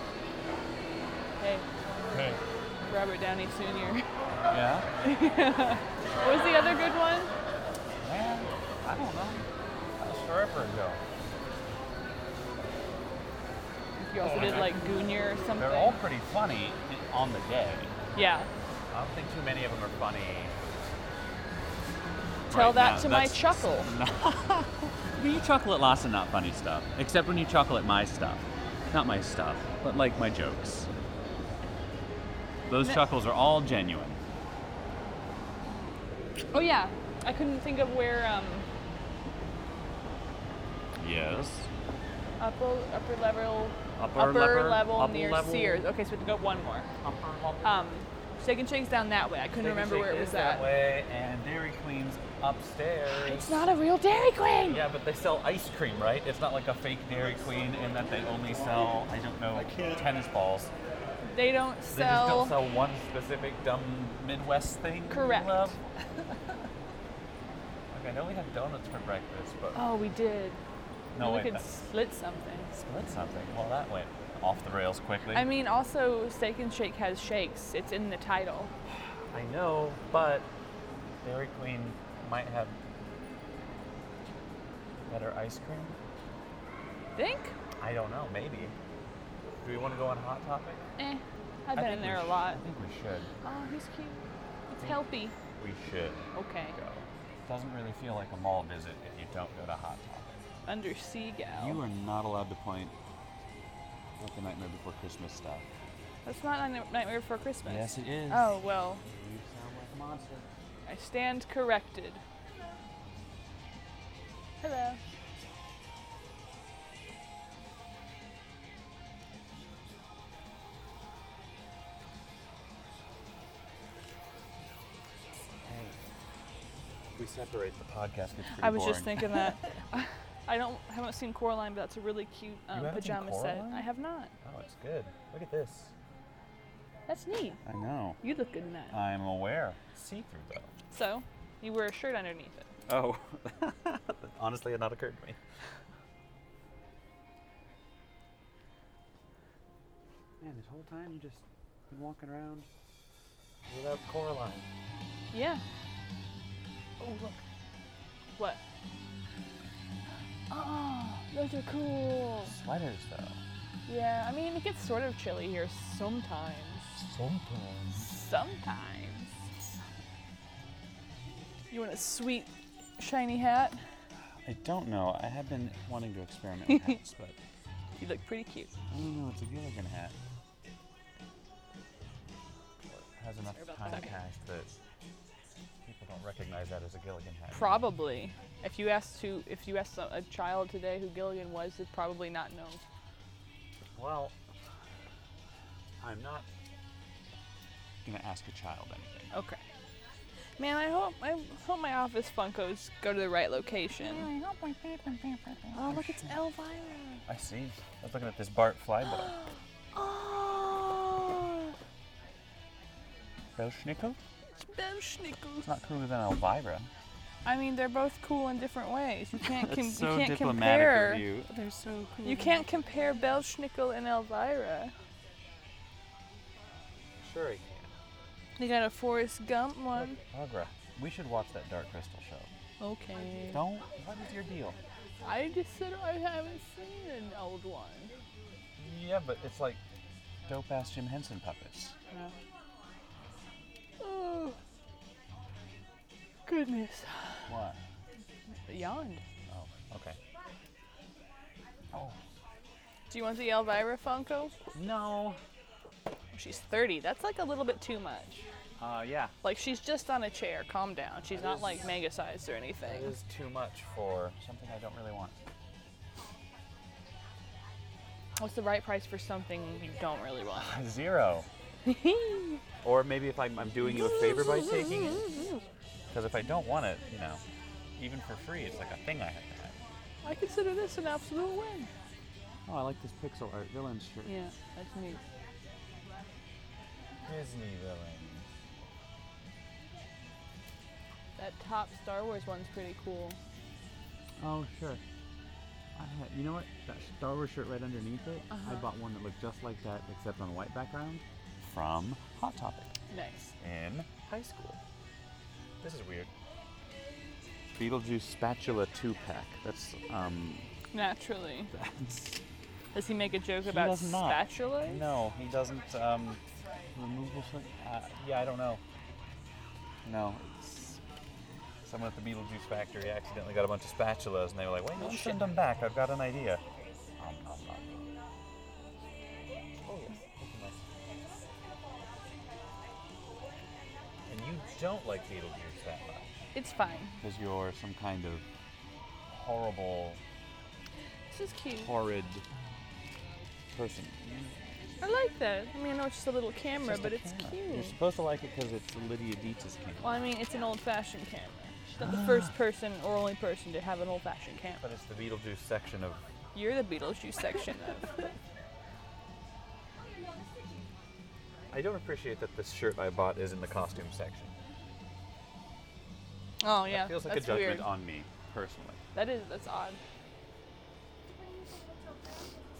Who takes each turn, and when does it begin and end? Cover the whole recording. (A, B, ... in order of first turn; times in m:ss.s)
0:01.4-0:01.6 A
0:02.1-0:02.4 B
0:02.9-0:04.1 A
0:04.5-0:04.9 B
0:05.0-0:07.3 A
0:08.0-0:09.5 B
0:10.0-0:11.0 B
0:14.0-0:16.0 A
0:14.2-0:14.8 B
0:15.5-0:18.0 B
0:18.1-0:18.5 A
0:18.9-0:20.9 B
0:22.5-0:30.9 B
0:22.5-0:23.9 A
0:32.7-0:34.2 B
0:36.5-0:38.7 A
0:41.0-0:41.7 B
0:42.4-0:46.9 A
0:44.0-0:45.9 B
0:47.0-0:47.8 B
0:47.6-0:50.7 A
0:49.5-0:53.6 B
0:53.1-0:54.8 A
0:54.6-1:00.7 B
1:01.2-1:02.6 A
1:01.9-1:05.8 B
1:05.1-1:05.7 A
1:07.9-1:09.8 B
1:09.7-1:10.6 A
1:11.1-1:11.7 B
1:11.2-1:12.7 A
1:12.7-1:15.5 B
1:15.3-1:18.7 A
1:18.9-1:20.5 B
1:21.2-1:22.8 B
1:25.1-1:26.0 B
1:27.2-1:27.5 A
1:27.8-1:28.8 B
1:29.6-1:30.8 B
1:31.0-1:32.6 A
1:31.7-1:33.3 B
1:33.4-1:35.4 A
1:35.6-1:40.4 B
1:36.3-1:36.8 A
1:40.6-1:41.8 A
1:41.5-1:42.9 B
1:44.2-1:45.7 B
1:46.2-1:49.0 A
1:47.6-1:50.5 B
1:50.8-1:52.2 A
1:54.6-1:55.0 A
2:05.3-2:06.0 B
2:07.1-2:09.5 B
2:08.6-2:14.3 A
2:12.7-2:13.9 B
2:14.4-2:15.9 B
2:17.1-2:17.6 A
2:17.6-2:18.2 B
2:18.2-2:19.0 A
2:18.9-2:20.7 B
2:20.9-2:22.7 A
2:22.9-2:25.4 B
2:30.4-2:32.7 B
2:33.7-2:34.7 B
2:35.3-2:35.6 A
2:37.0-2:37.4 A
2:40.5-2:42.5 A
2:42.4-2:43.4 B
2:43.8-2:47.0 A
2:46.9-2:48.2 B
2:48.0-2:49.3 A
2:51.7-2:53.8 A
2:54.4-2:57.4 B
2:56.7-2:57.0 A
2:58.0-2:58.7 A
2:58.9-3:00.2 B
3:03.2-3:04.7 B
3:03.4-3:04.2 A
3:05.8-3:07.9 B
3:07.5-3:12.8 A
3:14.0-3:14.4 B
3:16.0-3:16.5 B
3:18.0-3:19.3 B
3:19.3-3:19.6 A
3:20.6-3:24.3 A
3:24.0-3:26.3 B
3:25.7-3:27.2 A
3:27.2-3:29.4 B
3:29.9-3:31.7 A
3:33.6-3:34.2 B
3:34.6-3:35.7 A
3:35.6-3:36.9 B
3:37.4-3:41.2 A
3:39.4-3:42.6 B
3:42.2-3:44.9 A
3:47.2-3:47.9 B
3:48.6-3:50.2 A
3:50.0-3:52.5 B
3:52.8-3:53.6 A
3:53.5-3:54.8 B
3:55.2-3:58.1 A
3:58.8-3:59.8 B
4:00.4-4:01.9 B
4:04.0-4:04.6 A
4:06.5-4:07.5 A
4:07.5-4:07.8 B
4:08.6-4:09.2 A
4:09.5-4:10.2 B
4:11.9-4:12.2 B
4:13.1-4:14.6 A
4:14.7-4:15.4 B
4:16.3-4:18.5 A
4:18.8-4:19.3 B
4:19.4-4:23.1 A
4:21.3-4:21.9 B
4:22.8-4:25.4 B
4:28.3-4:30.7 A
4:30.5-4:31.5 B
4:31.8-4:32.6 A
4:32.8-4:35.3 B
4:33.8-4:35.6 A
4:36.1-4:37.4 B
4:38.0-4:39.8 B
4:40.2-4:41.9 A
4:42.6-4:44.4 B
4:44.2-4:45.2 A
4:47.2-4:48.5 B
4:51.4-4:53.4 A
4:54.4-4:55.0 B
4:56.0-5:02.9 B
4:58.5-4:58.9 A
5:03.1-5:03.5 A
5:03.6-5:04.8 B
5:05.8-5:06.3 B
5:07.7-5:10.7 B
5:10.9-5:11.7 A
5:11.7-5:12.4 B
5:12.9-5:15.1 A
5:13.6-5:16.4 B
5:16.9-5:18.8 B
5:20.0-5:21.0 B
5:21.8-5:26.6 B
5:25.0-5:25.5 A
5:27.2-5:28.1 B
5:29.8-5:30.9 B
5:34.3-5:36.4 B
5:36.5-5:37.2 A
5:37.2-5:38.4 B
5:39.3-5:40.2 B
5:41.3-5:41.9 A
5:41.8-5:42.4 B
5:43.7-5:44.6 B
5:45.0-5:48.0 A
5:46.8-5:50.2 B
5:50.0-5:54.8 A
5:52.0-5:52.5 B
5:54.8-5:56.2 B
5:56.5-5:58.3 A
6:00.6-6:00.9 B
6:01.7-6:04.5 B
6:06.6-6:07.9 A
6:06.8-6:09.0 B
6:09.1-6:10.0 A